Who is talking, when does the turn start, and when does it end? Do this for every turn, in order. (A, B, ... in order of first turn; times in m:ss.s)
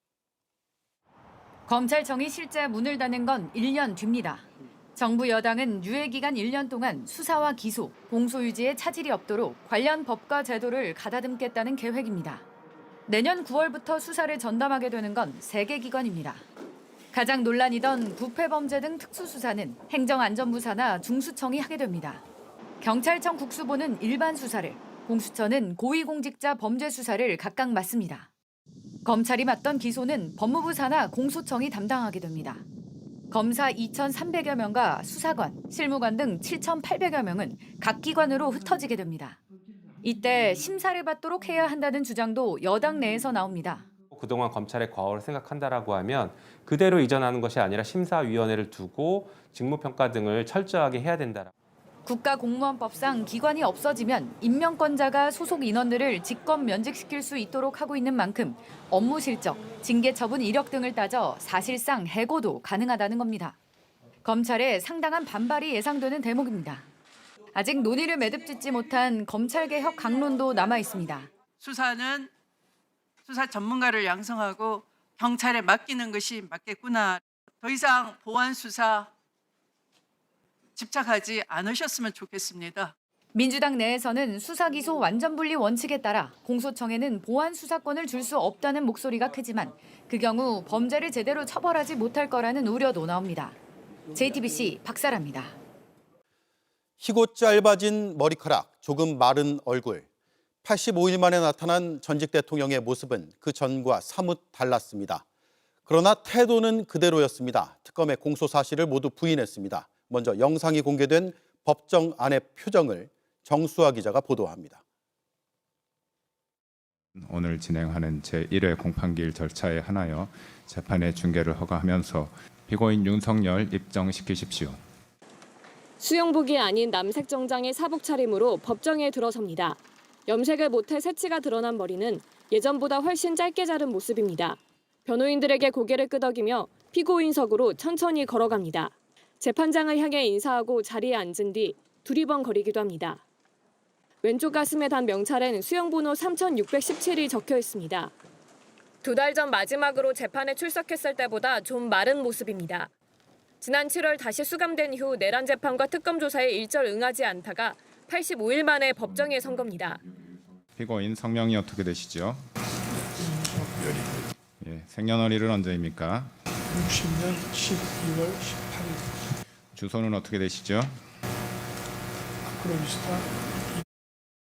0:01.7-0:12.4 A
0:13.1-0:16.4 A
0:17.1-0:22.2 A
0:22.8-0:28.3 A
0:29.0-0:32.6 A
0:33.3-0:39.4 A
0:40.0-0:43.9 A
0:44.1-0:51.5 B
0:52.0-1:03.6 A
1:04.2-1:06.8 A
1:07.5-1:11.3 A
1:11.6-1:12.3 C
1:13.3-1:19.1 C
1:20.8-1:22.9 C
1:23.3-1:33.6 A
1:34.1-1:35.6 A
1:37.0-1:40.0 D
1:40.6-1:45.2 D
1:45.9-1:54.8 D
1:57.2-2:04.8 E
2:06.0-2:23.2 F
2:24.2-2:28.1 F
2:29.0-2:32.9 F
2:33.6-2:40.0 F
2:40.8-2:42.5 E
2:43.3-2:43.7 G
2:44.6-2:46.3 E
2:46.7-2:49.0 G
2:49.8-2:51.0 E
2:52.5-2:53.3 G